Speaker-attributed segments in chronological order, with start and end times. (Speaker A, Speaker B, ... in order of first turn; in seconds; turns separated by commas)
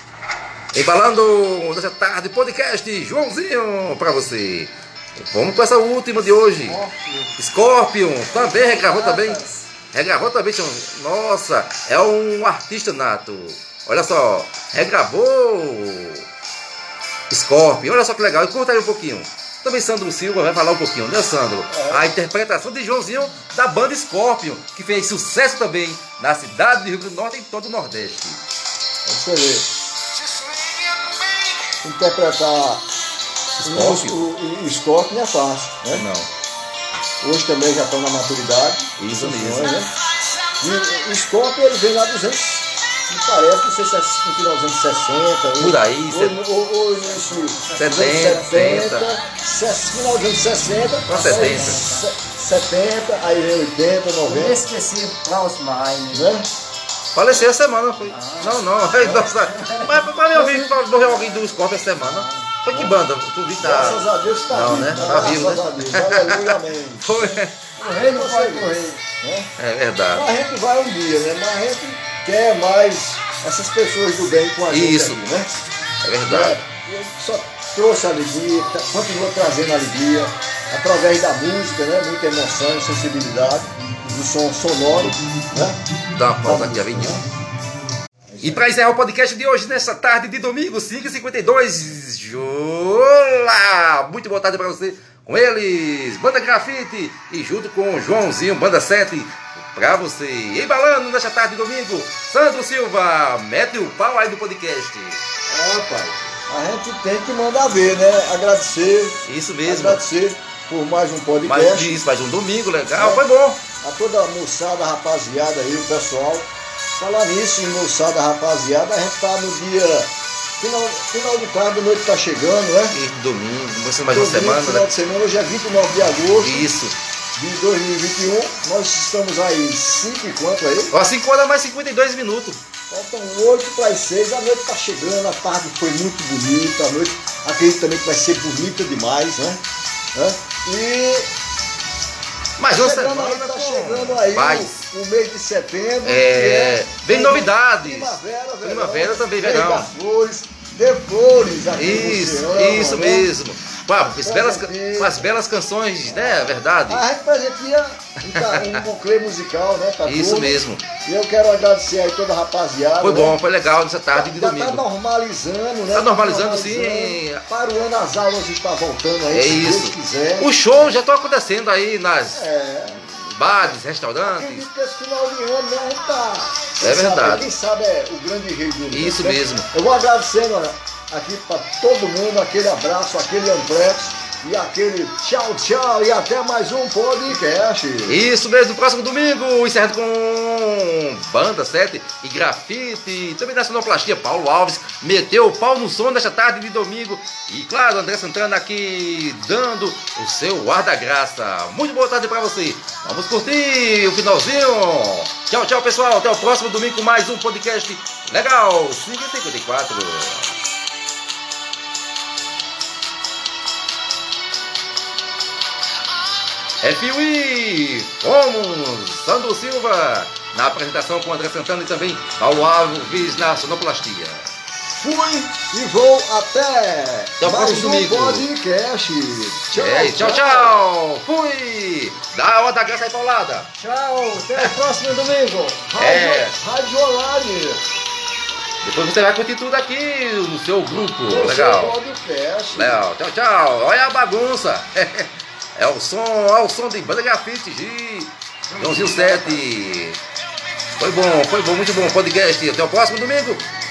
Speaker A: 0.7-6.8, Speaker B: 6.5-7.3, Speaker A: 7.4-16.3, Speaker B: 8.3-9.7, Speaker A: 17.3-28.4, Speaker C: 21.7-22.1, Speaker C: 29.1-29.7, Speaker C: 31.8-32.9, Speaker A: 33.6-34.2, Speaker C: 33.6-36.1, Speaker A: 35.9-36.3, Speaker C: 37.2-39.9, Speaker A: 39.0-39.8, Speaker C: 40.6-54.6, Speaker A: 45.6-46.4, Speaker B: 47.1-48.5, Speaker A: 47.8-49.1, Speaker B: 50.9-52.1, Speaker A: 51.1-51.8, Speaker B: 54.2-56.3, Speaker C: 56.1-56.5, Speaker A: 57.1-67.6, Speaker B: 58.0-58.8, Speaker C: 59.0-59.3, Speaker B: 59.4-62.5, Speaker C: 62.7-63.0, Speaker C: 63.6-67.4, Speaker B: 67.8-69.0, Speaker C: 68.0-69.5, Speaker A: 69.6-70.3, Speaker C: 70.1-75.5, Speaker A: 74.7-75.2, Speaker A: 76.0-76.6, Speaker C: 76.2-85.8, Speaker A: 86.1-87.2, Speaker C: 86.4-87.2, Speaker C: 88.3-88.7, Speaker A: 88.4-105.2, Speaker C: 105.5-112.0, Speaker A: 109.2-110.0, Speaker A: 111.4-113.6, Speaker C: 113.0-113.2, Speaker C: 113.8-123.0, Speaker A: 122.9-124.9, Speaker C: 124.1-126.7, Speaker A: 126.4-127.0, Speaker C: 127.3-131.0, Speaker A: 130.9-132.6, Speaker C: 132.9-139.6, Speaker C: 140.1-141.3, Speaker A: 142.6-144.7, Speaker C: 142.7-153.3, Speaker A: 146.0-149.9, Speaker A: 151.8-157.1, Speaker C: 154.1-155.3, Speaker C: 156.1-163.4, Speaker A: 158.3-158.8, Speaker A: 160.1-160.8, Speaker A: 163.0-164.8, Speaker C: 164.1-170.9, Speaker A: 165.9-167.4, Speaker A: 169.3-174.7, Speaker C: 172.3-188.2, Speaker A: 176.8-177.5, Speaker A: 178.9-179.7, Speaker A: 188.1-210.5, Speaker A: 216.8-224.5, Speaker C: 224.9-230.8, Speaker A: 227.4-228.5, Speaker A: 229.7-233.7, Speaker C: 233.8-237.8, Speaker A: 236.0-236.6, Speaker A: 238.8-242.0, Speaker C: 241.3-243.0, Speaker A: 242.7-250.2, Speaker C: 248.7-249.7, Speaker A: 251.0-253.7